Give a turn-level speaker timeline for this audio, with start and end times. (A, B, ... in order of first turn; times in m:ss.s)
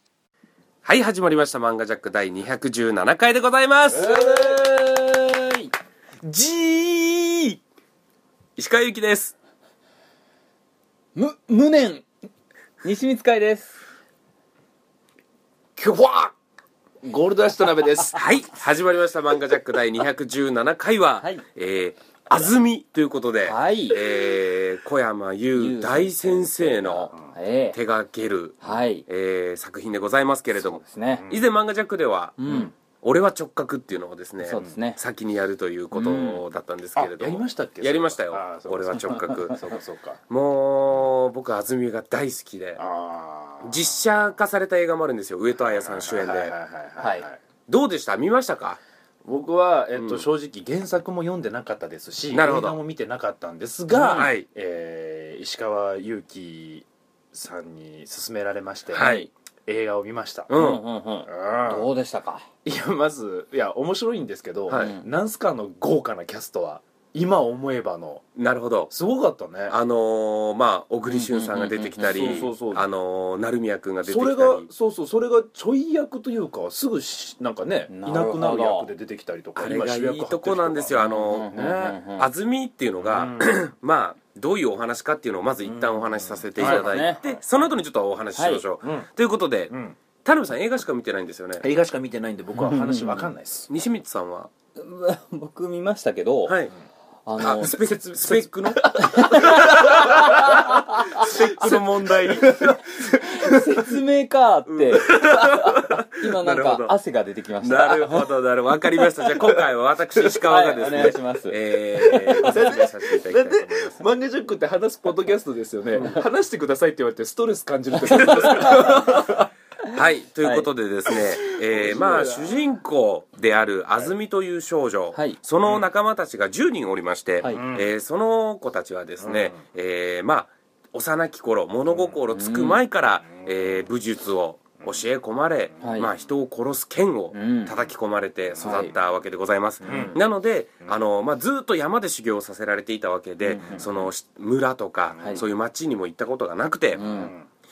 0:00.8-0:04.2 A
0:04.0-0:05.7 B
0:06.3-0:07.3 A
0:08.6-0:09.3 A
0:11.1-0:12.0 B
0:12.8-0:13.8 B
0:15.8-0:16.3 C
0:17.0-0:18.2 C
0:18.2-0:27.1 A
0:21.2-0:21.4 B
0:23.4-0:24.1 B
0:25.6-0:27.8 B
0:27.7-0:39.6 A
0:28.6-0:29.0 B
0:30.6-0:31.3 B
0:31.2-0:31.4 C
0:32.4-0:32.7 B
0:34.4-0:35.0 B
0:35.9-0:36.4 B
0:37.0-0:40.2 C
0:39.0-0:39.6 B
0:40.3-0:42.8 A
0:42.8-0:43.8 C
0:43.6-0:46.6 A
0:45.8-0:47.4 C
0:47.0-0:47.2 B
0:47.7-0:48.8 A
0:49.2-0:59.1 C
0:50.0-0:50.3 A
0:52.3-0:52.8 A
0:53.9-0:54.3 B
0:54.0-0:54.4 A
0:58.9-0:59.3 A
0:58.9-0:59.3 B
0:59.7-1:00.5 C
1:00.5-1:00.8 A
1:00.5-1:02.5 B
1:01.3-1:01.9 C
1:02.6-1:08.2 C
1:04.7-1:05.0 B
1:08.4-1:08.9 A
1:08.9-1:09.8 C
1:09.7-1:14.7 A
1:11.0-1:12.5 B
1:12.0-1:12.9 C
1:14.0-1:21.0 C
1:17.9-1:18.9 B
1:19.6-1:31.7 A
1:21.0-1:22.3 B
1:21.5-1:22.0 C
1:23.0-1:23.6 C
1:25.6-1:27.4 C
1:26.6-1:27.2 B
1:28.4-1:28.6 B
1:28.8-1:29.1 C
1:29.7-1:30.0 C
1:31.6-1:33.7 C
1:32.6-1:33.3 B
1:33.7-1:34.5 A
1:34.8-1:36.6 B
1:36.4-1:36.7 A
1:37.2-1:37.8 B
1:37.4-1:42.8 A
1:37.6-1:43.9 C
1:39.0-1:41.8 B
1:42.8-1:48.3 B
1:44.7-1:46.9 A
1:47.6-1:54.0 A
1:50.4-1:52.6 B
1:52.2-1:59.5 C
1:58.0-1:59.2 B
1:58.2-1:59.3 A
1:59.8-2:00.7 B
1:59.9-2:27.1 A
2:01.1-2:02.7 C
2:05.1-2:05.4 B
2:07.4-2:07.6 B
2:07.5-2:07.9 C
2:09.2-2:09.6 C
2:11.9-2:12.2 C
2:12.3-2:12.8 B
2:15.8-2:16.1 B
2:17.3-2:17.9 B
2:18.6-2:18.9 C
2:18.6-2:18.9 B
2:19.8-2:20.2 B
2:19.8-2:20.2 C
2:23.4-2:23.9 B
2:23.6-2:24.0 C
2:25.2-2:25.4 B
2:26.9-2:27.4 B
2:26.9-2:27.4 C